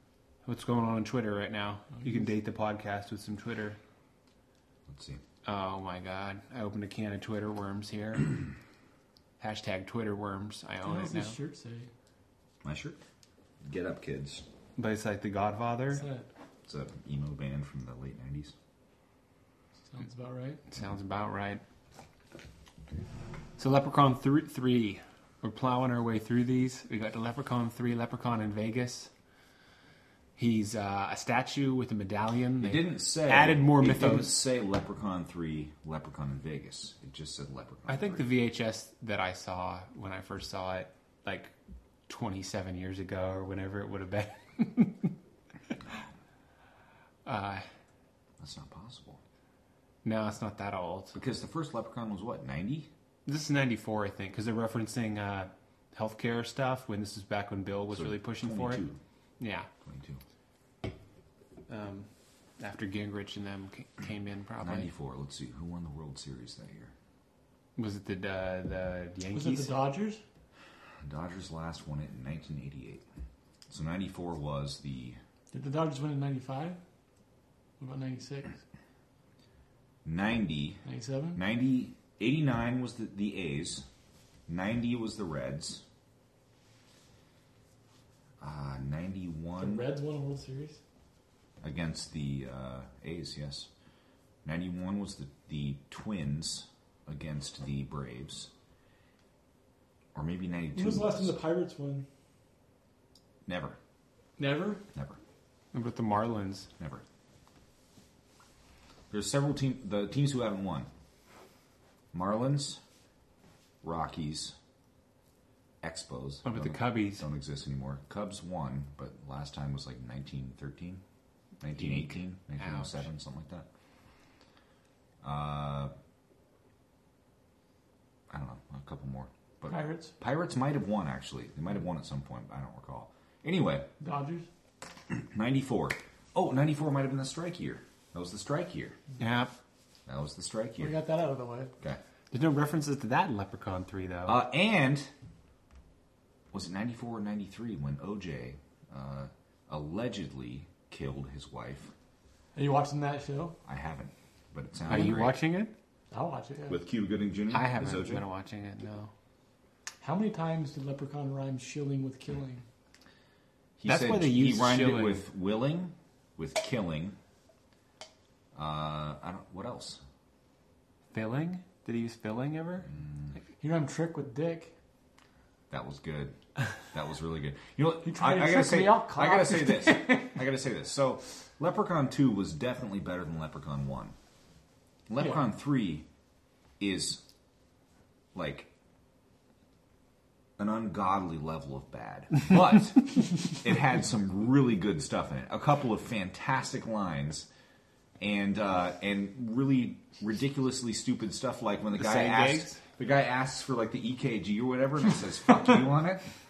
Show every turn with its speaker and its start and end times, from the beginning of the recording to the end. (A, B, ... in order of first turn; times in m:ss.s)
0:00.4-0:03.8 A
0:01.9-0:02.3 B
0:04.9-0:05.2 C
0:05.4-0:08.4 A
0:09.4-0:11.4 A
0:10.8-0:11.9 B
0:12.6-0:13.0 C
0:13.6-0:14.4 C
0:14.8-0:16.0 A
0:15.9-0:16.3 B
0:16.6-0:18.5 C
0:19.9-0:20.6 B
0:20.7-0:21.6 A
0:23.6-0:29.1 A
0:30.4-0:34.4 A
0:32.6-0:38.3 C
0:37.9-0:41.5 A
0:42.1-0:45.1 A
0:47.2-0:47.6 A
0:48.4-0:49.2 C
0:50.0-0:51.2 A
0:51.1-0:52.9 C
0:53.2-0:58.8 A
0:57.9-0:59.0 C
0:59.4-0:59.7 A
0:59.8-1:00.2 C
1:01.7-1:02.1 A
1:02.6-1:04.9 A
1:04.6-1:06.9 C
1:07.8-1:09.8 A
1:09.3-1:10.2 B
1:11.0-1:13.0 C
1:13.7-1:15.2 C
1:15.5-1:16.8 B
1:17.8-1:18.6 B
1:20.0-1:20.8 C
1:20.8-1:21.4 B
1:21.3-1:23.8 C
1:24.5-1:25.8 C
1:28.4-1:29.8 C
1:29.6-1:30.8 B
1:31.6-1:33.7 C
1:34.4-1:38.5 C
1:40.1-1:41.4 C
1:40.7-1:42.1 B
1:43.4-1:43.8 C
1:44.4-1:44.8 B
1:45.7-1:46.7 A
1:46.8-1:47.0 C
1:49.1-1:50.9 C
1:52.1-1:52.8 C
1:53.8-1:54.5 C
1:55.8-2:01.0 C
1:56.4-1:57.2 A
2:01.6-2:03.7 C
2:01.7-2:03.0 A
2:05.2-2:05.9 C
2:08.3-2:13.9 C
2:09.7-2:10.1 B
2:14.0-2:14.5 B
2:15.1-2:19.0 C
2:19.2-2:19.5 A
2:20.1-2:21.0 C
2:20.8-2:21.7 B
2:22.3-2:24.4 A
2:24.3-2:25.1 C
2:26.5-2:31.9 C
2:32.5-2:33.6 B
2:33.6-2:35.4 C
2:34.9-2:35.7 A
2:36.1-2:36.8 B
2:36.7-2:38.2 C
2:37.5-2:39.1 A
2:40.0-2:42.6 B
2:43.8-2:47.2 C
2:43.8-2:45.2 A
2:48.5-2:50.0 C
2:51.1-2:52.9 A
2:52.9-2:53.3 C
2:53.6-2:54.7 B
2:55.7-2:56.4 C
2:56.9-3:04.1 C
2:58.0-3:00.3 B
3:05.1-3:06.0 C
3:06.8-3:07.2 C
3:08.3-3:08.7 C
3:10.6-3:17.5 C
3:18.2-3:26.2 C
3:22.0-3:22.8 A